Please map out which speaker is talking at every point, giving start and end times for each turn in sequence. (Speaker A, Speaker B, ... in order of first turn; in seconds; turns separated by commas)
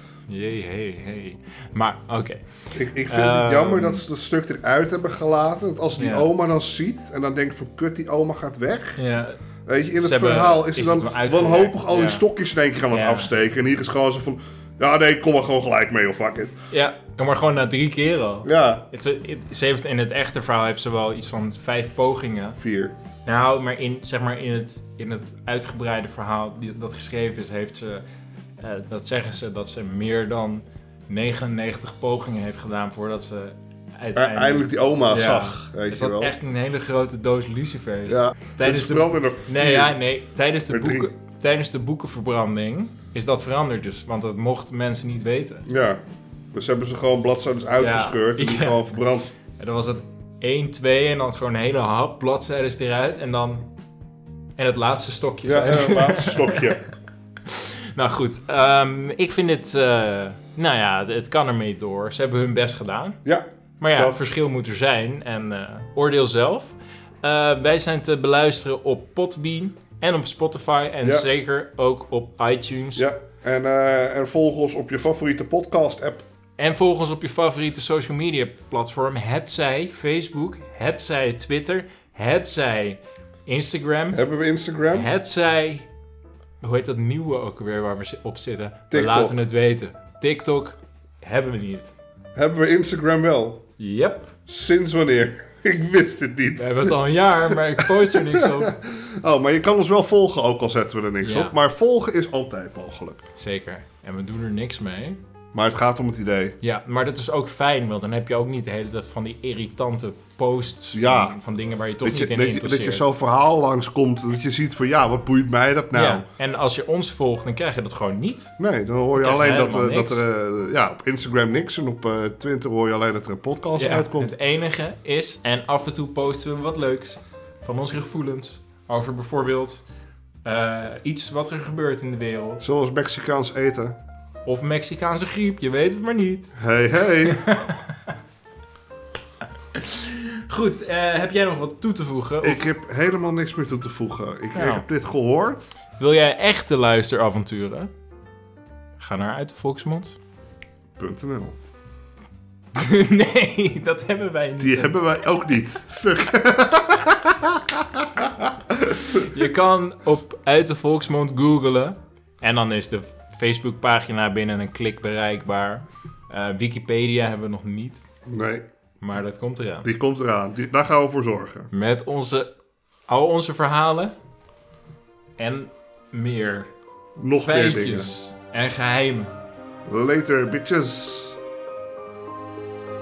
Speaker A: 0.3-2.4, Speaker B: 2.7-9.0, Speaker A: 3.1-4.0, Speaker A: 6.0-6.3, Speaker A: 9.0-9.4, Speaker B: 9.7-16.5, Speaker A: 10.0-12.2, Speaker A: 12.9-13.3, Speaker A: 16.7-22.6, Speaker B: 18.4-18.9, Speaker B: 22.6-22.9, Speaker A: 23.2-28.0, Speaker A: 28.6-45.6, Speaker B: 34.1-36.3, Speaker B: 38.1-40.0, Speaker B: 40.7-41.1, Speaker B: 45.7-46.0, Speaker B: 46.5-49.3, Speaker A: 47.8-49.0, Speaker A: 49.5-53.7, Speaker A: 54.6-56.9, Speaker B: 55.5-56.8, Speaker A: 57.5-63.2, Speaker B: 63.2-64.2, Speaker A: 63.8-73.1, Speaker B: 73.0-76.2, Speaker A: 76.6-84.2, Speaker B: 84.1-85.1, Speaker A: 84.9-85.9, Speaker A: 86.6-91.9, Speaker B: 88.9-89.4, Speaker B: 92.3-93.6, Speaker A: 93.8-94.3, Speaker B: 94.5-97.0, Speaker A: 96.6-98.7, Speaker B: 98.1-103.2, Speaker A: 101.2-101.5, Speaker A: 103.4-105.2, Speaker B: 105.5-106.5, Speaker A: 106.6-113.0, Speaker B: 110.9-111.4, Speaker B: 112.0-116.2, Speaker A: 115.9-118.5, Speaker B: 118.6-124.3, Speaker A: 119.2-120.2, Speaker A: 123.7-129.8, Speaker A: 130.4-132.6, Speaker B: 132.6-134.0, Speaker A: 134.4-136.6, Speaker B: 136.6-137.7, Speaker A: 137.3-137.8, Speaker A: 139.7-142.7, Speaker B: 142.4-145.7, Speaker A: 144.5-144.8, Speaker A: 146.0-147.9, Speaker A: 149.0-150.2, Speaker B: 151.0-151.6, Speaker A: 152.7-154.9, Speaker B: 154.6-159.3, Speaker A: 159.1-168.0, Speaker B: 168.3-168.6, Speaker A: 169.0-169.9, Speaker B: 169.8-171.7, Speaker A: 171.7-172.5, Speaker A: 173.1-174.1, Speaker A: 175.4-176.7, Speaker B: 177.2-178.1, Speaker A: 177.4-179.3, Speaker B: 179.8-181.4